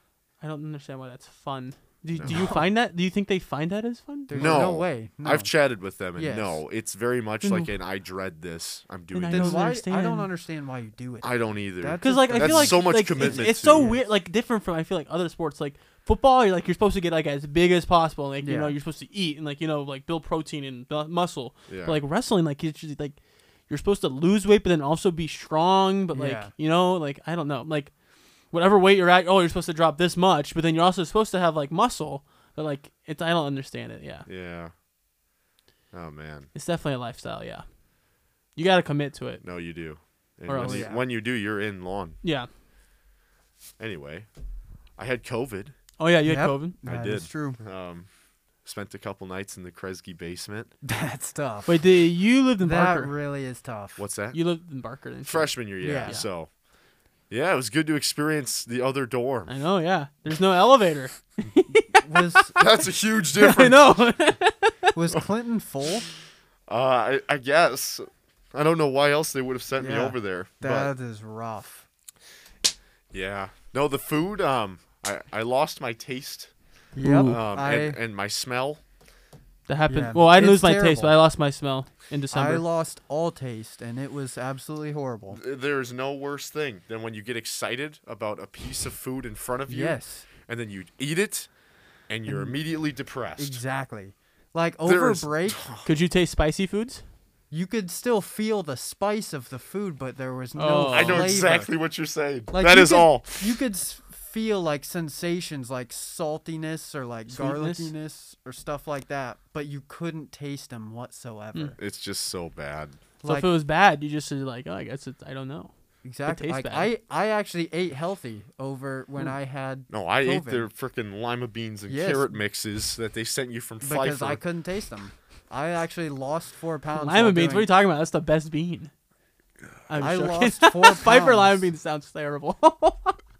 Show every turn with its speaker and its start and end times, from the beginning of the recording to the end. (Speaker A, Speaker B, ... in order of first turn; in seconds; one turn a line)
Speaker A: 0.4-4.6
Speaker B: 2.1-2.4
Speaker C: 2.3-2.6
Speaker C: 4.3-5.5
Speaker B: 4.3-9.7
Speaker C: 6.2-6.6
Speaker A: 7.4-7.7
Speaker A: 9.1-10.3
Speaker C: 9.3-14.0
Speaker B: 11.2-13.9
Speaker A: 12.0-23.2
Speaker C: 18.4-18.8
Speaker B: 21.7-22.0
Speaker A: 23.7-27.9
Speaker C: 26.1-26.5
Speaker A: 28.5-34.3
Speaker B: 34.2-34.7
Speaker B: 35.9-36.5
Speaker A: 36.5-37.6
Speaker A: 38.5-39.4
Speaker B: 39.4-42.2
Speaker A: 40.5-40.9
Speaker C: 40.6-41.0
Speaker A: 42.2-42.5
Speaker B: 43.8-44.3
Speaker B: 45.0-45.7
Speaker A: 46.0-46.7
Speaker C: 46.2-47.6
Speaker B: 46.8-48.1
Speaker B: 48.6-50.7
Speaker C: 50.8-51.8
Speaker A: 51.7-53.1
Speaker C: 52.6-54.0
Speaker B: 54.0-54.4
Speaker A: 54.3-56.2
Speaker B: 55.2-56.5
Speaker C: 55.8-56.2
Speaker B: 57.3-59.5
Speaker A: 59.5-62.7
Speaker C: 61.9-62.6
Speaker B: 62.5-63.8
Speaker A: 63.4-65.0
Speaker C: 64.9-66.0
Speaker B: 66.7-70.9
Speaker C: 69.8-71.8
Speaker B: 73.1-76.5
Speaker C: 76.9-78.0
Speaker A: 77.0-77.4
Speaker B: 77.2-78.8
Speaker A: 79.7-82.6
Speaker C: 79.9-81.1
Speaker C: 82.3-85.4
Speaker B: 85.3-91.5
Speaker C: 89.7-90.3
Speaker B: 92.1-93.6
Speaker C: 92.3-92.6
Speaker C: 93.4-95.6
Speaker B: 94.8-95.8
Speaker A: 95.8-97.0
Speaker C: 97.5-101.7
Speaker A: 100.5-101.3
Speaker B: 100.9-103.5
Speaker C: 102.5-111.8
Speaker A: 107.3-107.9
Speaker B: 111.8-113.0
Speaker C: 113.2-113.5
Speaker A: 113.2-115.7
Speaker C: 116.0-120.7
Speaker A: 116.2-116.9
Speaker B: 119.9-124.4
Speaker C: 121.9-122.3
Speaker C: 123.8-127.7
Speaker A: 127.0-128.9
Speaker A: 129.9-133.2
Speaker C: 129.9-131.6